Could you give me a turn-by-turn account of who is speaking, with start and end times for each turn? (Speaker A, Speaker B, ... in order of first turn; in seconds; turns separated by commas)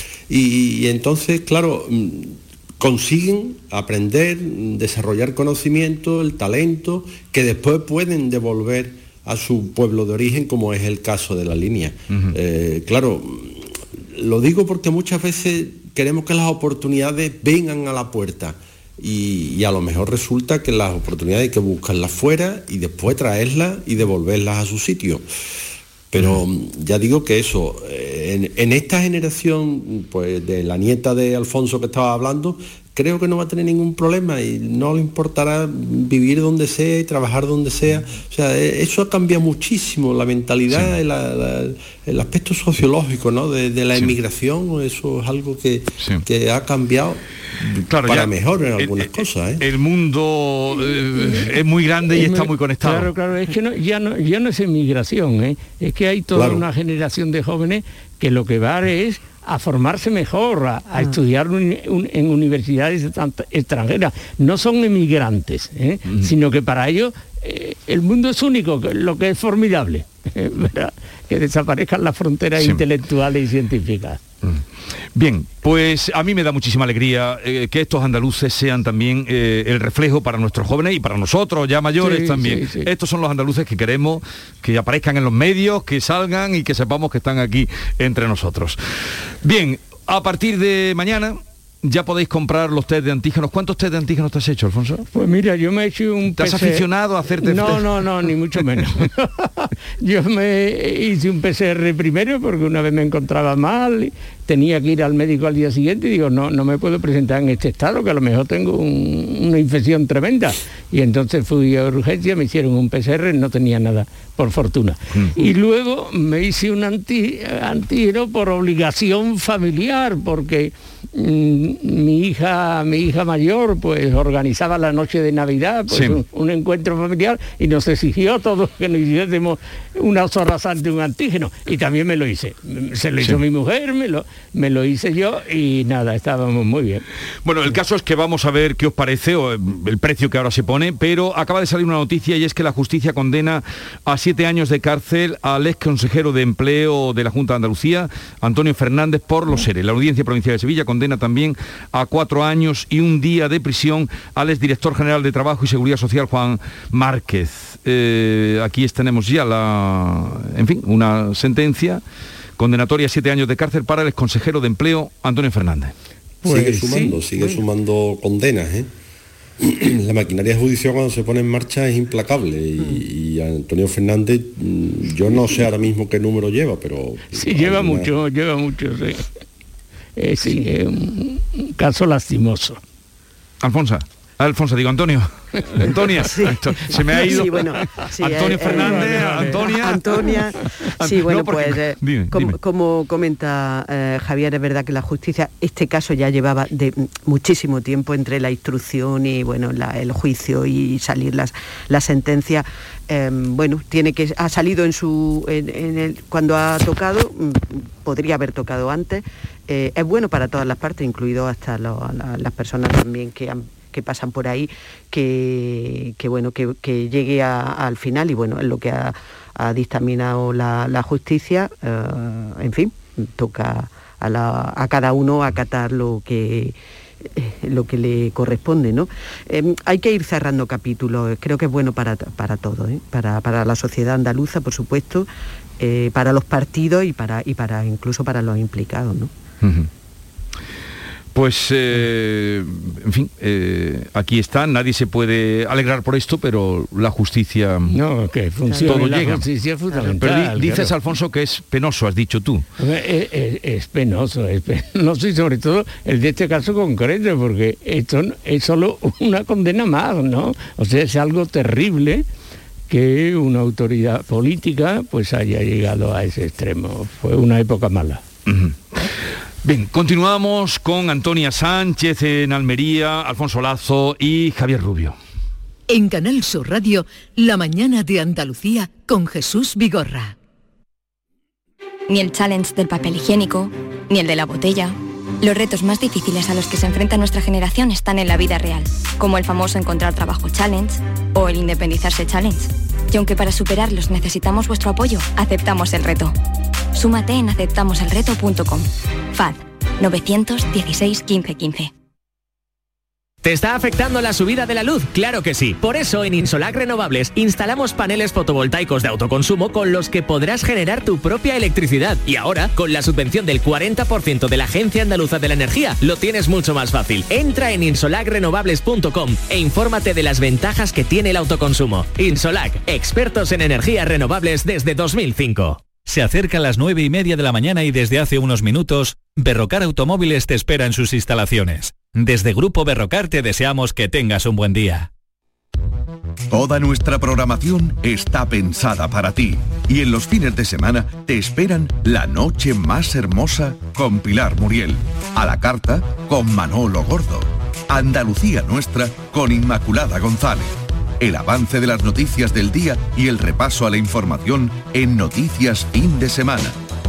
Speaker A: 0.3-25.2, Speaker A: 26.1-49.6, Speaker B: 47.8-53.1, Speaker C: 52.1-74.2, Speaker B: 72.6-72.8, Speaker B: 75.1-95.1, Speaker C: 82.0-82.9, Speaker C: 95.1-137.0, Speaker B: 96.3-98.9, Speaker B: 115.1-115.4, Speaker B: 125.9-126.2, Speaker B: 137.4-162.0, Speaker B: 162.6-165.9, Speaker C: 166.4-167.6, Speaker A: 166.4-168.9, Speaker A: 169.6-178.1, Speaker C: 177.3-179.3, Speaker C: 180.2-182.8, Speaker B: 183.6-190.4, Speaker D: 185.9-226.7, Speaker C: 187.1-187.5, Speaker C: 188.5-189.8, Speaker B: 191.0-192.6, Speaker D: 227.3-235.3, Speaker D: 235.8-239.3, Speaker B: 239.6-239.9, Speaker B: 241.3-247.9, Speaker C: 247.9-250.9, Speaker D: 248.7-249.0, Speaker B: 248.8-249.5, Speaker B: 250.2-252.6, Speaker C: 252.8-262.2, Speaker C: 262.9-268.2, Speaker B: 268.5-269.1, Speaker B: 269.6-275.2, Speaker E: 275.9-280.3, Speaker F: 282.1-296.3, Speaker F: 296.9-301.9, Speaker G: 303.4-325.9, Speaker H: 325.9-335.1, Speaker I: 336.5-356.8